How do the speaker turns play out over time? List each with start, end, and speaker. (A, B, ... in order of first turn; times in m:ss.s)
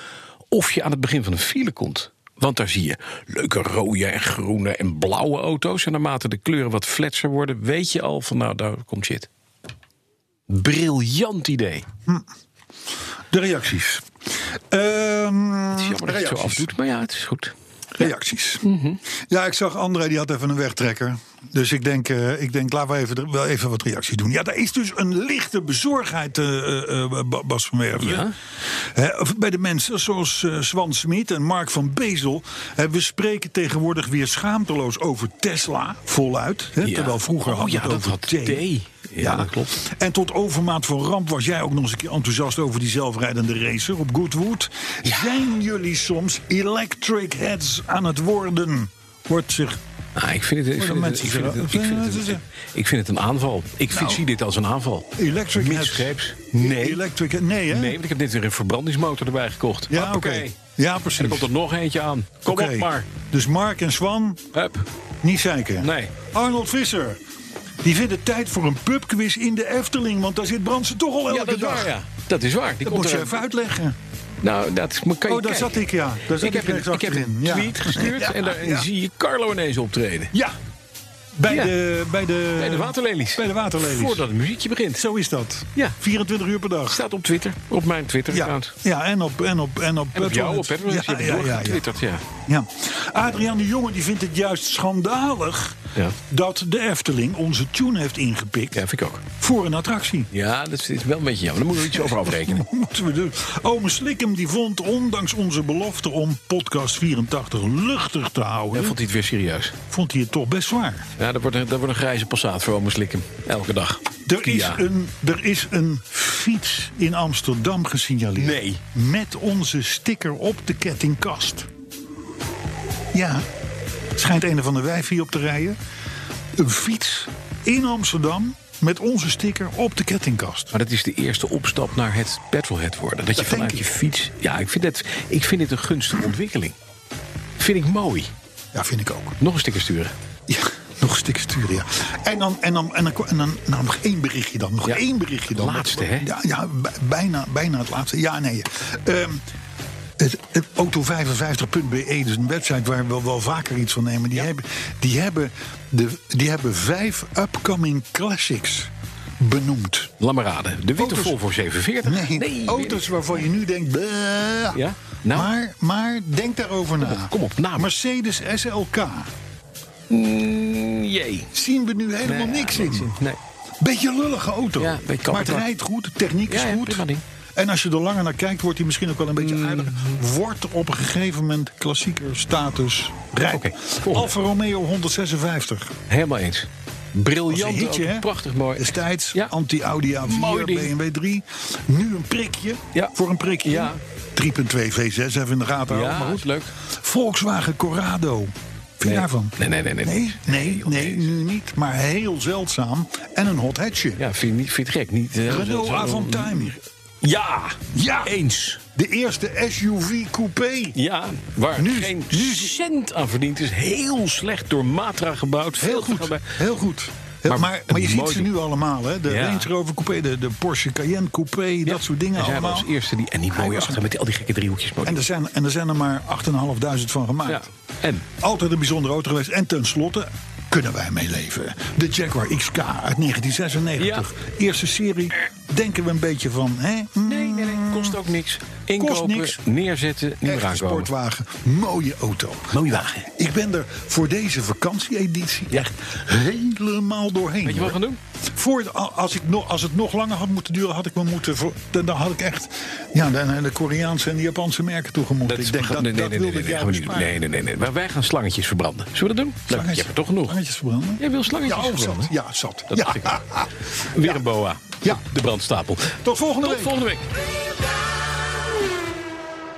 0:00.5-0:09.3 A
0:10.5-0:11.9 A
0:13.3-0:14.1 B
0:14.7-0:16.7 B
0:15.7-0:17.5 A
0:18.0-0:18.6 B
0:18.6-0:19.0 A
0:19.3-0:38.6 B
0:28.0-0:28.3 A
0:36.8-0:39.8 A
0:39.2-0:49.8 B
0:50.1-0:57.0 A
0:50.8-0:52.4 B
0:53.9-0:54.2 B
0:55.2-0:58.0 B
0:57.7-1:00.6 A
0:59.9-1:01.5 B
1:01.2-1:03.1 A
1:02.4-1:04.5 B
1:04.5-1:04.8 A
1:05.2-1:07.2 B
1:05.8-1:06.2 A
1:07.8-1:11.9 B
1:11.3-1:13.4 A
1:12.8-1:14.0 B
1:14.4-1:15.8 A
1:15.3-1:18.9 B
1:16.4-1:20.3 A
1:21.4-1:24.2 B
1:21.5-1:21.7 A
1:22.6-1:25.0 A
1:24.9-1:27.0 B
1:26.9-1:28.8 A
1:28.3-1:31.8 B
1:30.1-1:32.3 A
1:32.4-1:40.3 B
1:38.7-1:39.2 A
1:40.3-1:42.6 A
1:41.8-1:49.0 B
1:48.7-1:49.8 A
1:49.9-1:51.0 B
1:51.2-1:54.8 A
1:54.2-2:01.7 B
1:58.4-1:58.8 A
2:03.1-2:03.4 B
2:04.2-2:05.8 B
2:06.5-2:10.7 B
2:10.7-2:16.8 A
2:13.3-2:13.9 B
2:17.6-2:18.3 A
2:18.7-2:19.4 B
2:19.4-2:20.1 A
2:20.5-2:29.4 B
2:24.8-2:26.3 A
2:30.2-2:40.1 B
2:40.2-2:43.1 A
2:41.0-2:41.4 B
2:42.0-2:44.8 B
2:44.7-2:45.5 A
2:45.3-2:49.3 B
2:47.0-2:47.9 A
2:50.1-2:51.5 A
2:51.5-2:53.1 B
2:52.2-2:53.4 A
2:53.8-3:06.0 B
2:54.8-2:55.6 A
2:56.5-2:57.2 A
2:59.4-3:00.2 A
3:03.5-3:04.3 A
3:06.1-3:09.5 A
3:07.5-3:24.2 B
3:10.2-3:10.9 A
3:12.9-3:14.0 A
3:15.9-3:16.7 A
3:19.0-3:21.3 A
3:24.2-3:28.8 A
3:25.4-3:26.8 B
3:27.9-3:28.4 B
3:28.9-3:31.0 B
3:30.9-3:36.6 A
3:31.7-3:32.8 B
3:35.8-3:42.9 B
3:37.4-3:38.5 A
3:39.3-3:39.7 A
3:41.8-3:45.2 A
3:43.5-3:44.0 B
3:45.0-3:47.7 B
3:47.5-3:48.3 A
3:48.4-3:58.2 B
3:54.0-3:54.3 A
3:57.2-4:01.1 A
3:58.9-3:59.6 B
4:00.4-4:17.4 B
4:02.7-4:03.3 A
4:07.6-4:08.2 A
4:15.4-4:20.6 A
4:19.7-4:24.4 B
4:21.2-4:22.3 A
4:22.9-4:27.3 A
4:26.2-4:27.0 B